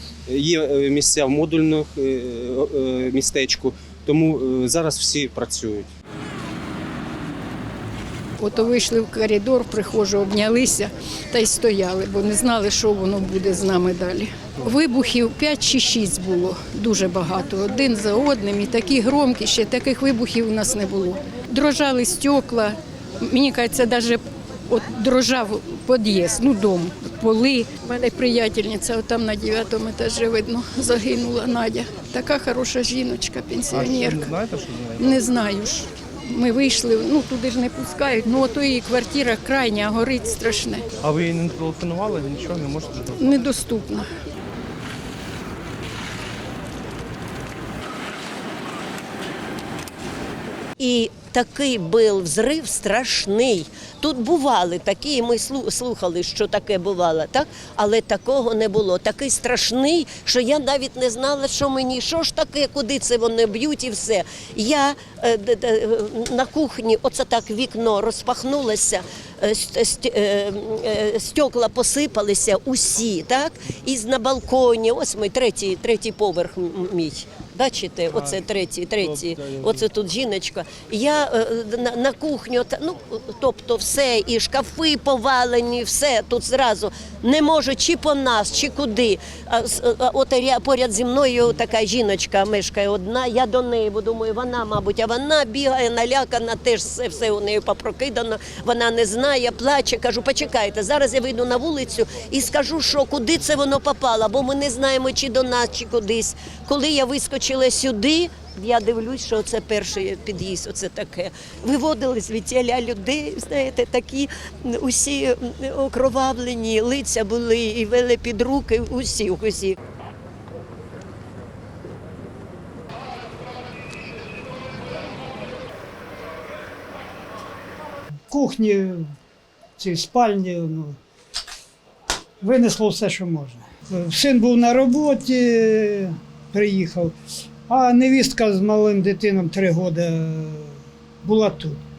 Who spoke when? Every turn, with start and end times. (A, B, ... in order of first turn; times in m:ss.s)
0:00.3-0:05.9 A
0:08.4-0:34.3 B
0:33.7-0:35.2 C
0:35.0-0:40.8 B
0:41.0-0:43.3 C
0:43.2-0:44.1 B
0:50.8-1:59.8 D
2:08.3-2:09.1 E
2:09.8-2:11.0 E
2:12.4-2:17.1 E
2:17.7-2:21.8 E